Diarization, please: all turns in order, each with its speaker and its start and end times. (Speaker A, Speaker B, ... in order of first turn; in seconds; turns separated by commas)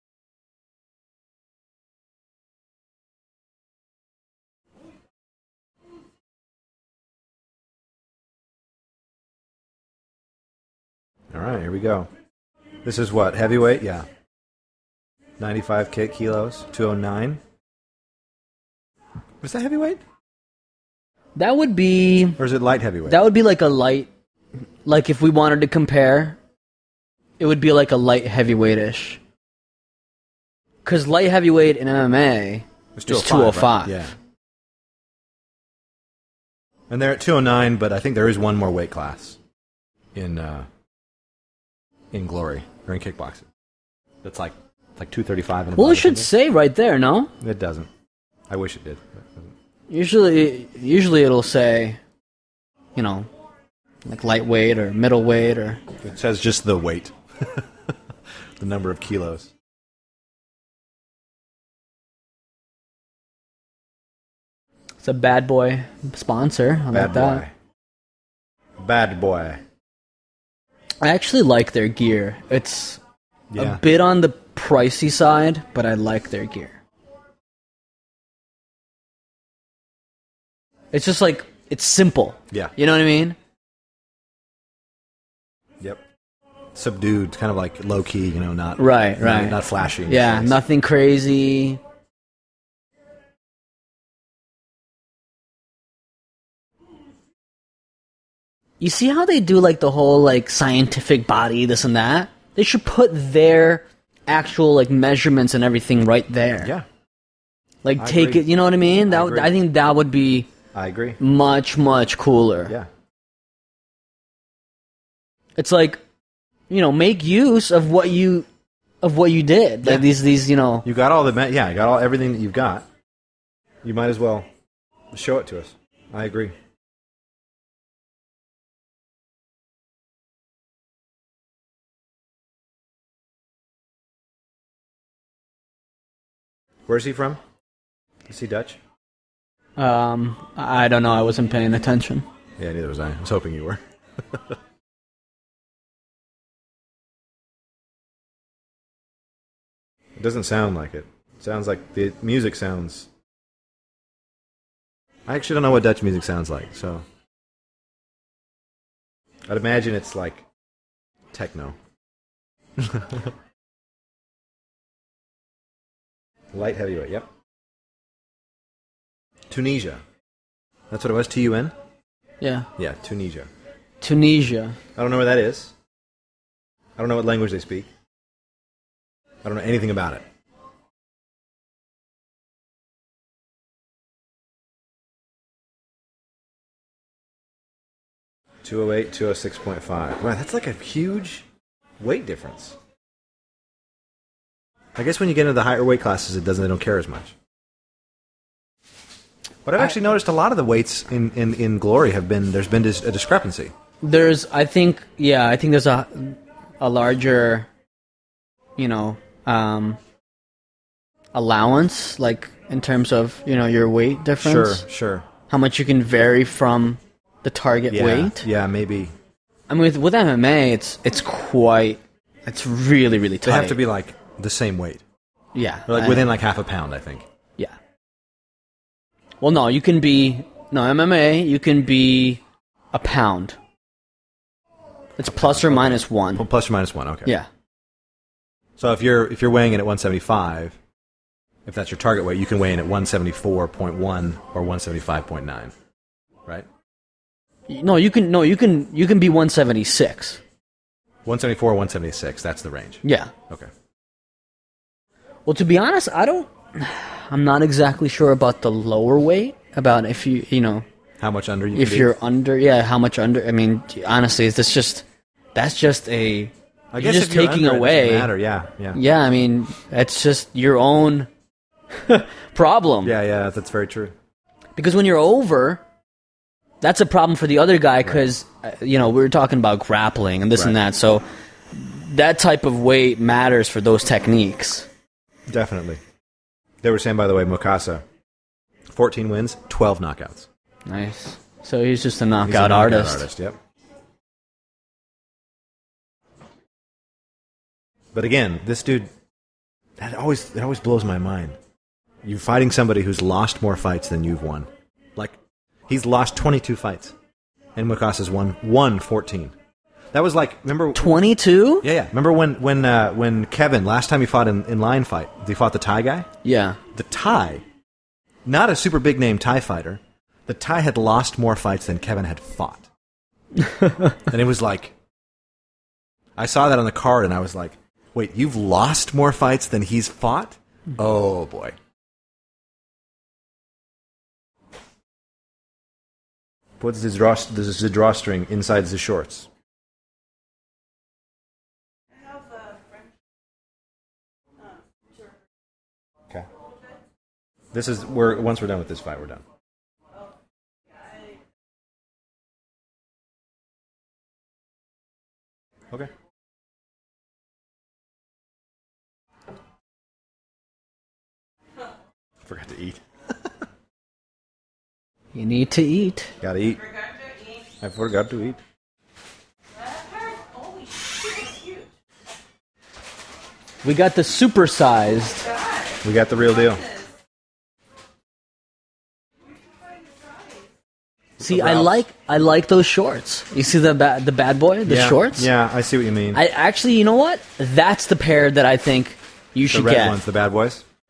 Speaker A: 11.3-12.1, Speaker A: 12.8-14.1, Speaker A: 15.4-17.4, Speaker A: 19.4-20.0, Speaker B: 21.4-22.4, Speaker A: 22.4-23.2, Speaker B: 23.1-24.1, Speaker B: 24.8-26.4, Speaker B: 27.4-29.2, Speaker B: 30.8-34.0, Speaker A: 32.9-34.1, Speaker A: 36.9-39.4, Speaker A: 40.1-40.7, Speaker A: 42.1-43.5, Speaker A: 44.2-46.3, Speaker B: 45.7-47.3, Speaker A: 47.4-47.9, Speaker A: 48.5-49.5, Speaker B: 49.9-52.0, Speaker B: 53.0-53.3, Speaker B: 54.0-55.8, Speaker A: 56.0-57.9, Speaker A: 58.6-59.5, Speaker B: 65.0-67.4, Speaker A: 66.9-67.5, Speaker A: 68.8-69.6, Speaker B: 71.0-73.0, Speaker A: 73.5-73.8, Speaker B: 73.5-76.8, Speaker B: 80.9-83.4, Speaker A: 86.7-90.6, Speaker B: 88.8-91.8, Speaker B: 98.8-106.7, Speaker A: 106.6-106.8, Speaker B: 107.8-110.5, Speaker A: 108.0-108.5, Speaker A: 109.1-109.5, Speaker A: 110.7-111.2, Speaker B: 111.2-112.7, Speaker B: 115.6-116.0, Speaker B: 116.7-118.5, Speaker B: 119.0-120.8, Speaker A: 119.8-120.1, Speaker A: 120.8-122.9, Speaker A: 123.8-124.5, Speaker A: 125.1-126.5, Speaker A: 136.9-137.4, Speaker A: 138.3-138.8, Speaker B: 139.8-142.2, Speaker A: 142.6-144.6, Speaker A: 150.2-153.1, Speaker A: 155.3-157.0, Speaker A: 159.5-160.4, Speaker A: 161.3-161.8, Speaker A: 162.8-163.3, Speaker A: 166.5-167.3, Speaker A: 169.5-170.0, Speaker A: 170.9-171.7, Speaker B: 172.4-172.7, Speaker A: 172.8-173.5, Speaker B: 174.0-174.8, Speaker A: 174.9-175.7, Speaker A: 177.0-177.9, Speaker A: 179.4-180.2, Speaker A: 188.6-191.4, Speaker A: 192.0-192.8, Speaker A: 194.9-197.3, Speaker A: 199.6-203.7, Speaker B: 204.0-207.7, Speaker B: 208.8-210.0, Speaker B: 211.3-214.8, Speaker A: 214.4-215.3, Speaker B: 215.5-218.4, Speaker A: 217.9-219.1, Speaker B: 219.7-223.8, Speaker A: 223.4-225.0, Speaker B: 225.5-226.3, Speaker A: 225.9-227.2, Speaker B: 229.4-232.4, Speaker B: 232.9-233.6, Speaker B: 235.2-236.4, Speaker A: 235.2-237.3, Speaker A: 238.8-240.8, Speaker A: 241.6-245.7, Speaker B: 247.7-250.4, Speaker A: 251.2-253.7, Speaker B: 253.0-253.3, Speaker B: 255.4-260.8, Speaker A: 261.2-262.1, Speaker B: 261.7-265.0, Speaker B: 265.5-268.3, Speaker A: 266.9-269.0, Speaker B: 268.9-271.3, Speaker B: 271.9-273.1, Speaker A: 273.0-274.1, Speaker B: 274.8-275.8, Speaker B: 276.8-284.9, Speaker A: 285.5-286.0, Speaker A: 286.8-288.0, Speaker A: 288.9-290.5, Speaker B: 290.9-293.2, Speaker A: 292.4-293.6, Speaker A: 298.1-299.1, Speaker A: 300.0-301.6, Speaker A: 302.2-305.4, Speaker A: 305.9-307.1, Speaker A: 307.7-309.5, Speaker A: 310.1-311.1, Speaker B: 310.9-311.9, Speaker A: 311.8-316.3, Speaker B: 316.4-316.8, Speaker A: 316.9-317.6, Speaker A: 318.4-322.9, Speaker B: 323.6-324.2, Speaker A: 324.3-324.9, Speaker A: 326.4-331.8, Speaker A: 336.8-339.5, Speaker C: 342.1-343.1, Speaker C: 344.6-345.4, Speaker A: 347.7-349.4, Speaker C: 350.9-351.4, Speaker A: 362.4-363.5, Speaker B: 365.3-366.3, Speaker A: 366.4-366.8, Speaker C: 366.6-367.7, Speaker A: 367.8-368.6, Speaker C: 369.7-371.9, Speaker B: 373.8-375.5, Speaker C: 375.4-377.1, Speaker A: 376.0-376.8, Speaker C: 379.6-380.7, Speaker A: 381.4-382.0, Speaker B: 381.4-385.5, Speaker A: 384.9-386.4, Speaker B: 386.3-390.2, Speaker A: 389.7-390.8